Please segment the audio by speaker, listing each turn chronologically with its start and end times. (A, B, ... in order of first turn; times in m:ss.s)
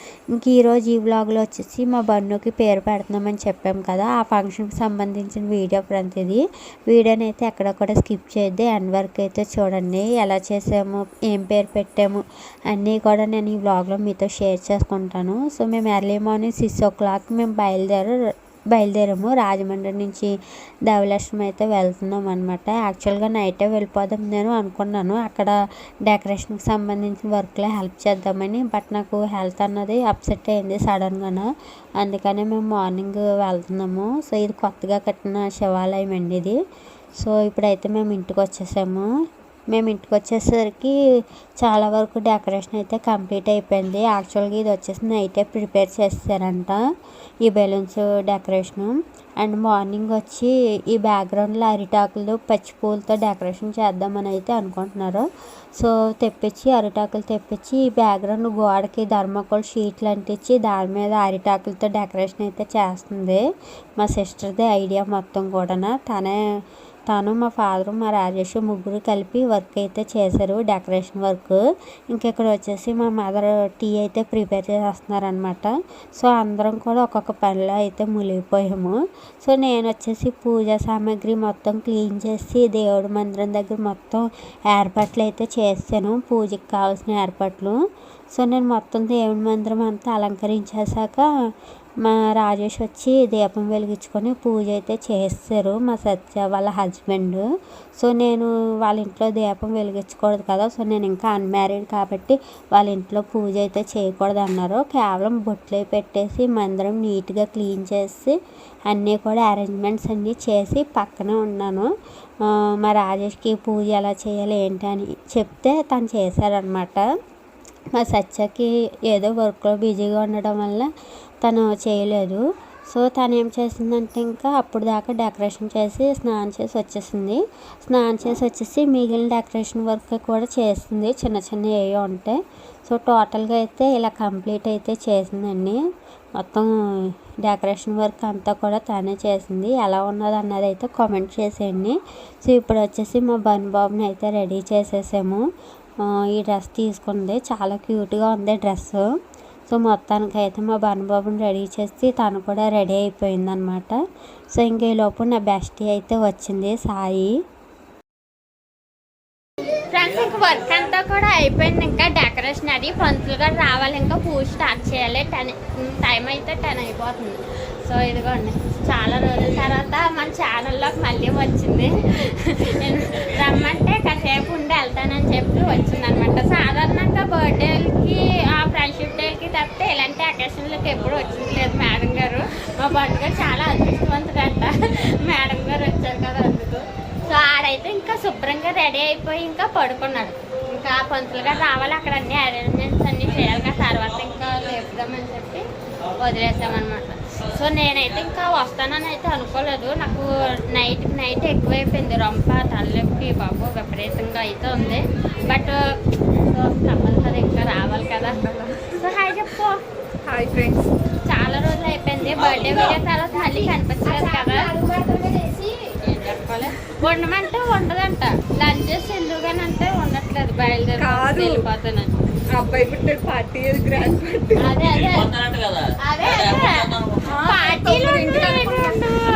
0:00.3-0:18.2 A
0:18.7-0:20.4 A
0:20.9-0:36.6 A
0:37.2-0:39.1 A
0:39.7-0:41.0 A
0:41.6-0:46.8 A
0:47.4-0:55.3 A
0:55.8-1:03.4 A
1:04.0-1:06.4 A
1:07.1-1:27.8 A
1:28.4-1:31.3 A
1:32.0-1:37.4 A
1:38.0-1:48.4 A
1:48.9-1:51.9 A
1:52.5-1:57.0 A
1:58.0-2:00.9 A
2:01.4-2:15.8 A
2:16.4-2:25.4 A
2:26.3-2:29.0 A
2:29.7-2:34.0 A
2:34.6-2:37.3 A
2:39.9-3:25.8 B
3:26.5-3:28.4 B
3:28.2-3:28.9 C
3:29.0-3:29.8 B
3:30.3-3:30.9 C
3:31.2-3:42.2 B
3:32.4-3:33.0 D
3:41.0-3:41.6 C
3:42.5-3:44.7 C
3:44.6-3:45.3 B
3:44.8-3:47.3 D
3:46.0-3:49.2 B
3:47.3-3:49.0 C